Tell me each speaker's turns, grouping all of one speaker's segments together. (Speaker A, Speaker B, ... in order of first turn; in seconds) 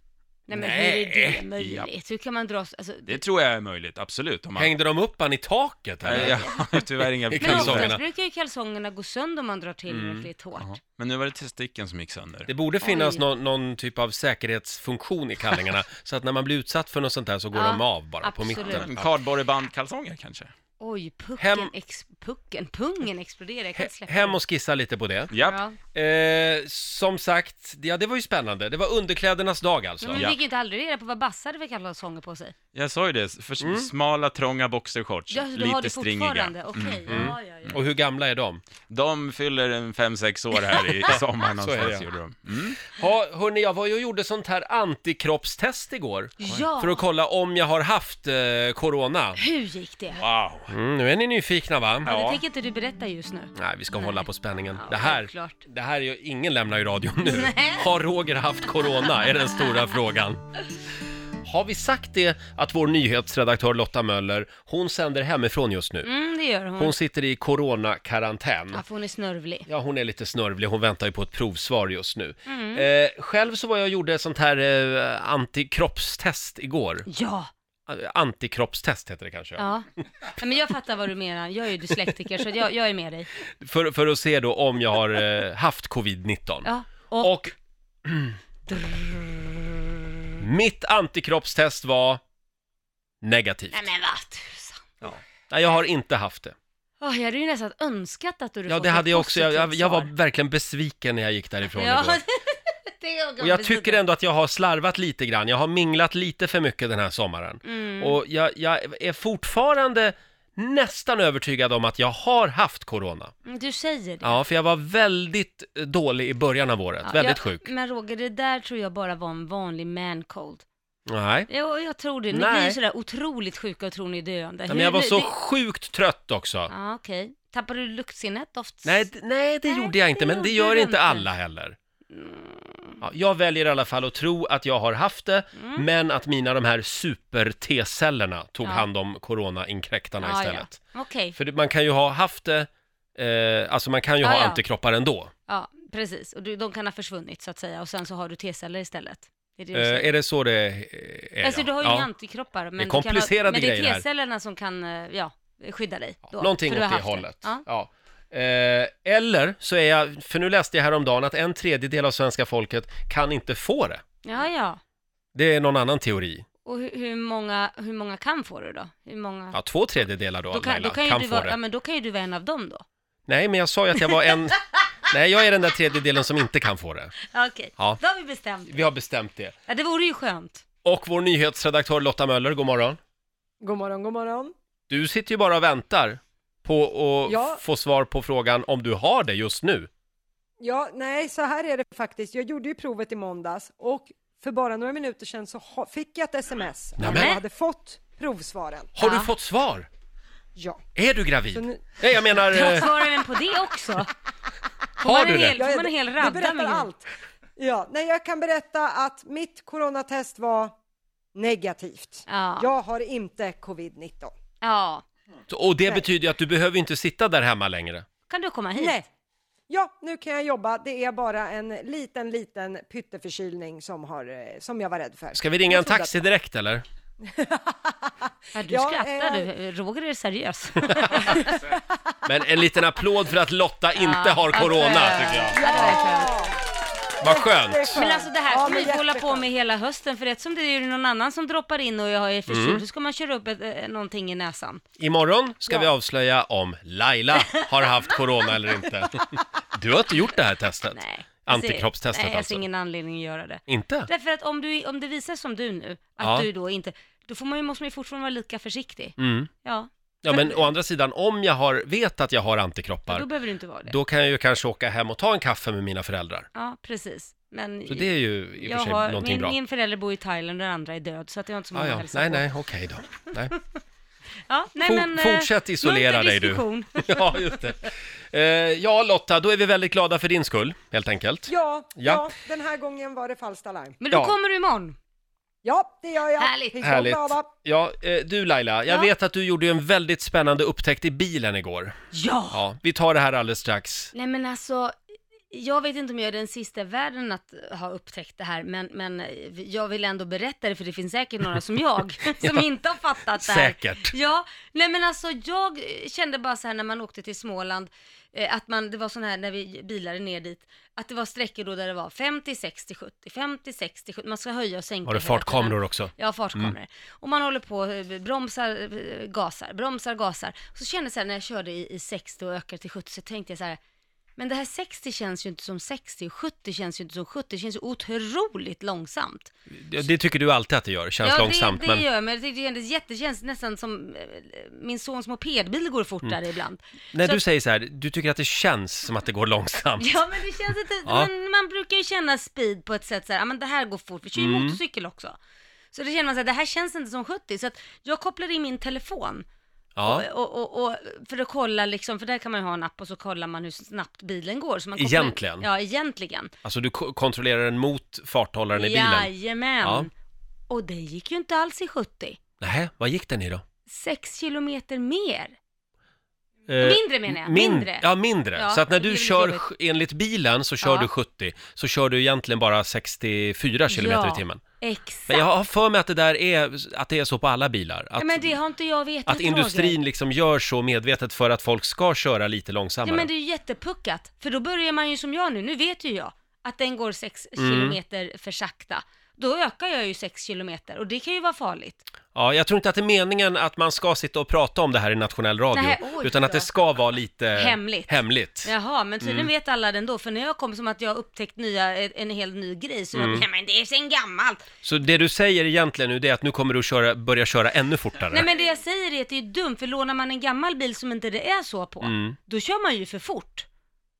Speaker A: 0.5-3.2, 6.1-6.6, 7.3-10.7, 12.8-13.2, 17.5-18.9, 20.8-24.4, 25.4-25.8, 30.0-32.5, 35.3-37.8, 46.4-47.0, 49.4-50.2, 52.0-55.6, 57.2-57.9, 66.0-67.0, 68.7-69.7, 72.5-72.8, 77.1-77.5, 79.6-83.3, 86.6-87.5, 88.7-90.3, 93.7-94.9, 97.0-100.1, 101.7-104.0, 107.6-108.2, 113.5-114.4, 117.0-120.6, 121.5-125.3, 126.7-129.1, 129.7-131.3, 132.1-133.0, 135.5-135.8, 138.6-138.9, 140.2-141.4, 144.2-144.6, 145.5-150.1, 151.4-157.6, 164.2-164.8, 166.6-169.6, 170.5-172.8, 174.0-174.4, 177.3-178.8, 179.7-180.6, 197.0-197.4, 199.0-199.3, 202.5-204.1, 205.0-206.9, 212.3-212.7, 214.6-215.0, 218.3-219.0, 228.5-231.6, 233.9-236.3, 237.9-244.8, 250.9-260.7, 263.1-263.9, 266.5-272.5, 274.5-277.6, 284.0-285.0, 286.4-286.8, 292.1-292.6, 294.1-294.9, 295.5-323.8, 324.4-329.5, 331.2-337.4, 340.0-345.4, 345.9-349.4, 350.0-356.5, 358.7-360.1, 360.7-362.4, 363.9-365.6, 366.8-369.6, 370.8-371.1, 373.9-375.5, 378.1-379.9, 383.0-392.1, 395.7-396.7, 397.5-404.6, 408.3-413.6
Speaker B: 0.5-1.4, 4.6-8.0, 9.9-10.3, 12.5-19.1, 21.4-21.7, 23.8-25.3, 25.9-30.3, 33.6-33.9, 37.1-38.6, 41.1-42.1, 42.9-49.4, 50.7-52.4, 53.5-60.4, 61.4-66.1, 66.8-68.8, 69.7-77.1, 77.9-79.7, 83.6-87.5, 88.0-88.8, 90.4-92.2, 93.2-93.9, 95.0-96.5, 98.7-102.2, 103.4-113.3, 114.2-117.7, 121.1-121.5, 122.3-122.8, 124.7-126.7, 128.8-131.8, 133.0-140.8, 141.3-145.3, 149.7-152.1, 152.8-154.0, 156.3-164.0, 165.3-166.4, 169.5-171.6, 173.3-177.1, 178.7-179.5, 180.8-183.0, 184.9-189.9, 197.0-197.4, 199.0-199.9, 200.9-202.9, 205.0-205.6, 215.5-218.1, 225.3-226.8, 230.9-231.3, 232.2-235.9, 237.2-238.0, 242.5-242.8, 245.0-252.6, 253.7-254.1, 256.2-256.5, 259.2-259.5, 260.2-263.2, 263.9-266.5, 267.9-269.6, 271.7-273.5, 274.8-282.3, 286.8-291.9, 292.5-294.1, 302.4-302.7, 303.4-304.1, 315.1-316.7, 329.7-332.1, 337.1-340.2, 341.0-341.3, 344.4-344.8, 350.0-350.3, 354.9-355.7, 356.6-359.3, 359.8-360.1, 362.6-363.6, 366.7-374.6, 375.3-378.6, 379.2-383.3, 387.6-388.0, 392.3-399.5, 403.1-403.4, 404.8-408.5, 412.0-412.4
Speaker C: 1.6-1.9, 3.1-4.7, 6.0-8.0, 10.6-12.5, 18.7-20.5, 25.3-25.6, 32.7-37.8, 38.9-42.8, 50.2-50.7
Speaker D: 183.6-184.5, 187.3-187.6, 190.6-199.0, 200.6-200.8, 201.5-202.1, 205.6-207.1, 207.6-210.7, 211.3-214.3, 218.8-219.1, 219.7-226.2, 227.2-229.5, 231.3-231.8, 235.5-236.6, 237.2-239.4, 281.5-284.0, 285.6-287.5